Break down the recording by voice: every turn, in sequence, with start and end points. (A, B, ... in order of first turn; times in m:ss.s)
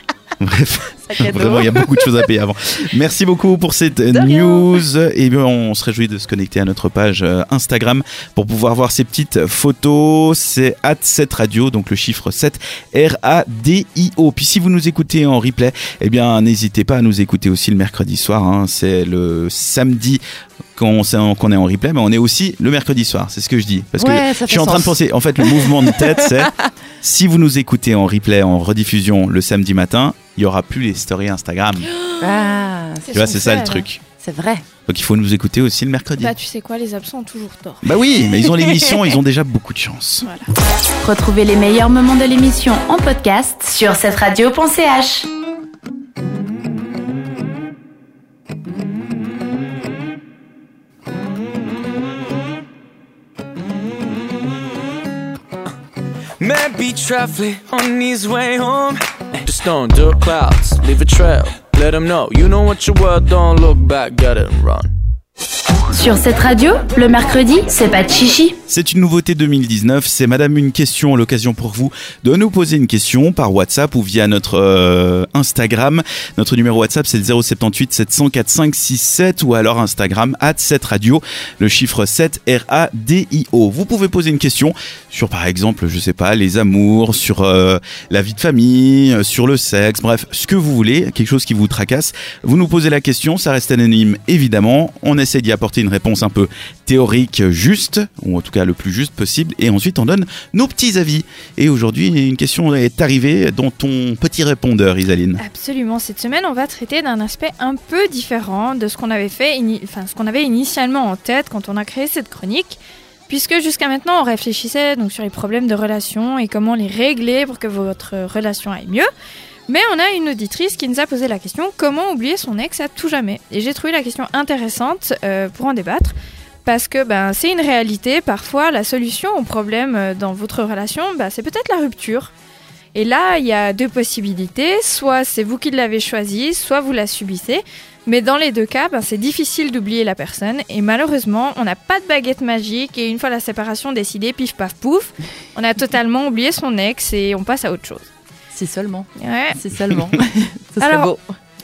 0:00.4-0:20.2 A
0:01.0-0:02.0 B
0:04.1-0:04.6 B
0:20.8-0:31.9 A
0:24.0-0:26.5 B
0:31.9-0:33.9 C
0:32.2-0:33.2 B
0:33.1-0:34.0 A
0:34.2-0:34.6 B
0:34.9-0:36.3 A
0:36.2-0:37.8 C
0:37.8-0:40.3 A
0:41.0-0:45.3 D
0:56.4-1:04.9 E
1:05.9-1:08.6 D
1:08.7-1:45.4 A
1:45.4-1:59.1 C
1:59.7-2:12.3 C
2:12.9-2:28.1 C
2:28.5-2:31.2 B
2:29.2-2:29.6 C
2:30.8-2:31.1 C